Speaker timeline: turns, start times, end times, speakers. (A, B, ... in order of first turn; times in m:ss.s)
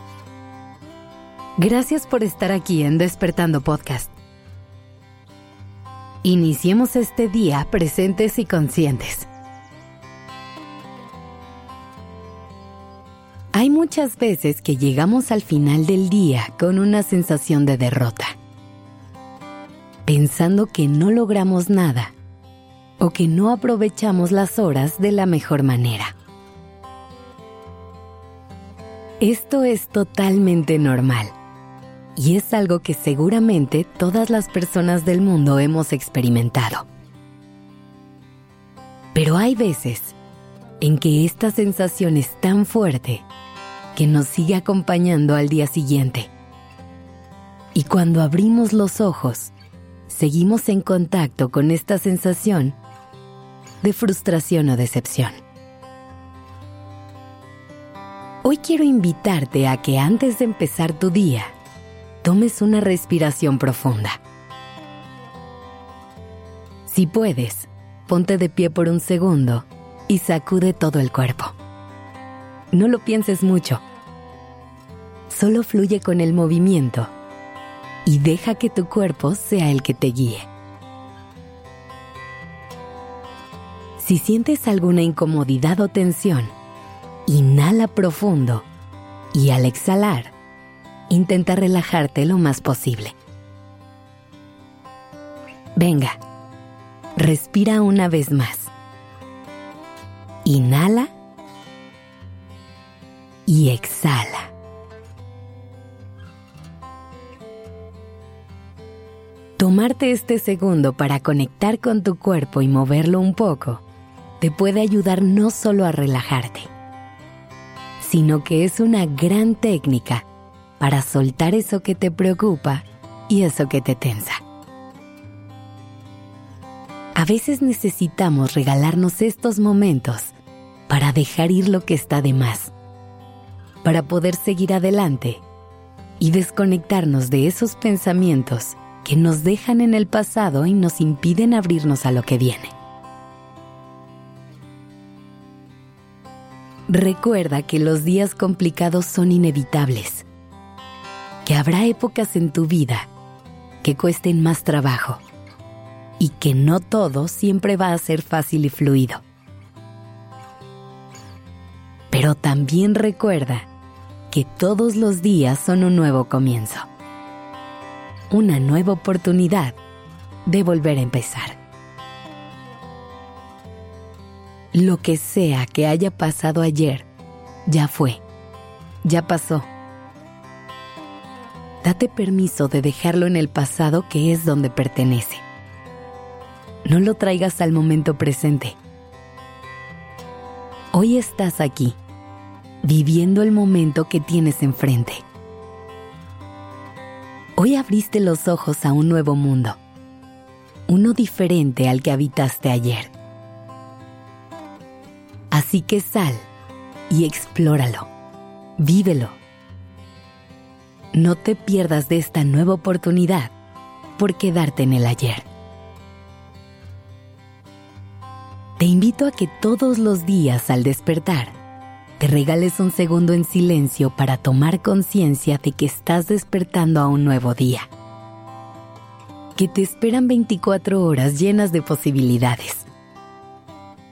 0:01.6-0:04.1 A
0:06.2-0:09.3 A
0:13.5-0:18.4 A
0:20.1-0:22.1 A
0:23.0-0:26.1 A
0:29.2-0:31.4 A
0:32.2-0:36.9 A
0:39.2-0:40.2 A
0:40.8-0:43.3 A
0:44.0-0:46.3 A
0:47.8-0:49.5 A
0:50.1-0:52.8 A
0:53.8-0:55.4 A
0:58.4-1:01.5 A
1:02.2-1:04.2 A
1:06.9-1:11.6 A
1:12.7-1:13.8 A
1:15.3-1:17.1 A
1:18.1-1:20.5 A
1:24.0-1:26.5 A
1:27.3-1:28.7 A
1:29.3-1:30.3 A
1:31.1-1:33.2 A
1:35.8-1:36.2 A
1:37.2-1:38.7 A
1:40.4-1:41.1 A
1:43.5-1:44.5 A
1:49.6-1:53.8 A
1:54.4-1:56.7 A
1:58.0-2:00.3 A
2:00.8-2:04.4 A
2:07.2-2:10.4 A
2:10.9-2:12.7 A
2:13.8-2:15.4 A
2:16.2-2:22.7 A
2:26.9-2:30.3 A
2:31.4-2:33.1 A
2:33.8-2:35.2 A
2:36.2-2:39.2 A
2:42.1-2:43.7 A
2:44.3-2:46.9 A
2:48.3-2:49.8 A
2:50.5-2:51.6 A
2:54.7-2:57.1 A
2:57.7-2:58.2 A
2:59.0-2:59.7 A
3:01.8-3:05.4 A
3:06.8-3:08.8 A
3:10.9-3:12.0 A
3:12.8-3:15.2 A
3:17.6-3:19.8 A
3:20.9-3:23.1 A
3:25.5-3:26.5 A
3:27.1-3:28.1 A
3:28.8-3:29.4 A
3:31.1-3:33.5 A
3:34.2-3:35.5 A
3:38.8-3:41.6 A
3:42.2-3:47.9 A
3:49.6-3:52.9 A